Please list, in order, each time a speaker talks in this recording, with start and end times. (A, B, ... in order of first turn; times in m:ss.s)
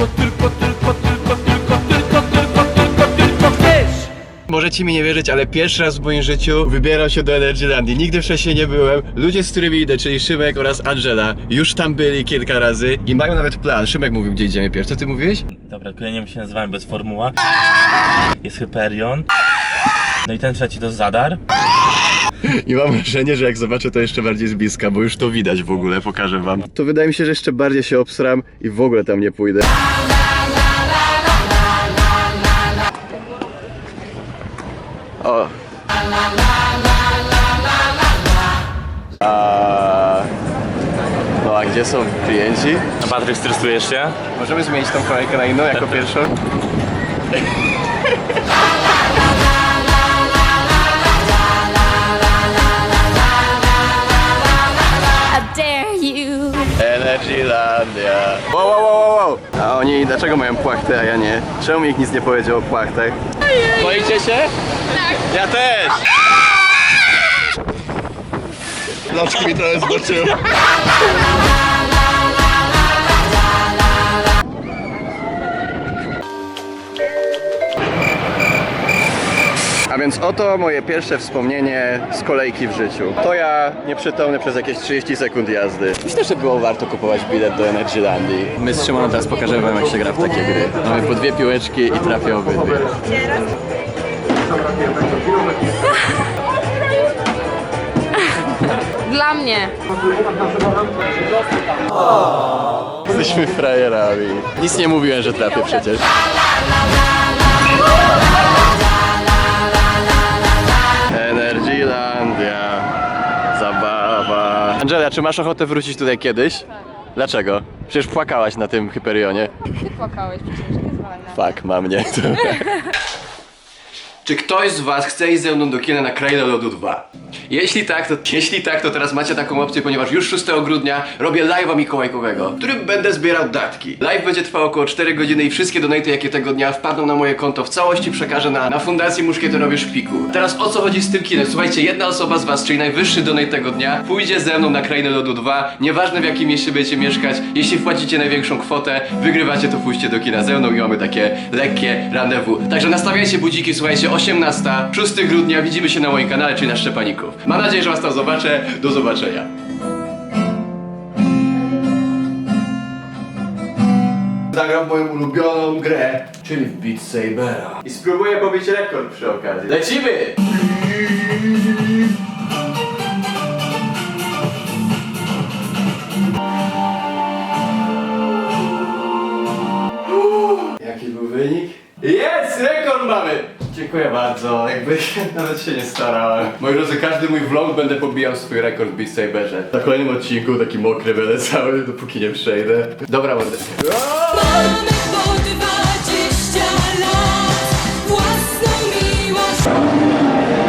0:04.5-0:15.4 A
0:15.6-0:17.4 B
0:18.4-0:19.3 B
0:20.2-0:21.4 B
0:22.4-0:29.7 A
0:35.2-0:35.5 A
0:39.2-0:40.3 A
0:41.4-0:42.9 A
0:43.0-0:44.2 B
0:44.3-0:46.4 A
0:55.3-0:56.7 C
0:56.8-1:04.5 A
1:05.1-1:06.1 A
1:09.1-1:10.4 A
1:19.9-1:33.0 A
1:38.2-1:39.7 C
1:43.0-1:46.1 A
1:51.1-1:52.9 A
1:53.5-1:59.5 A
1:59.8-2:01.3 C
2:01.3-2:02.9 A
2:04.2-2:39.5 A
2:44.5-2:51.4 A
3:00.1-3:15.0 A
3:14.9-3:19.7 D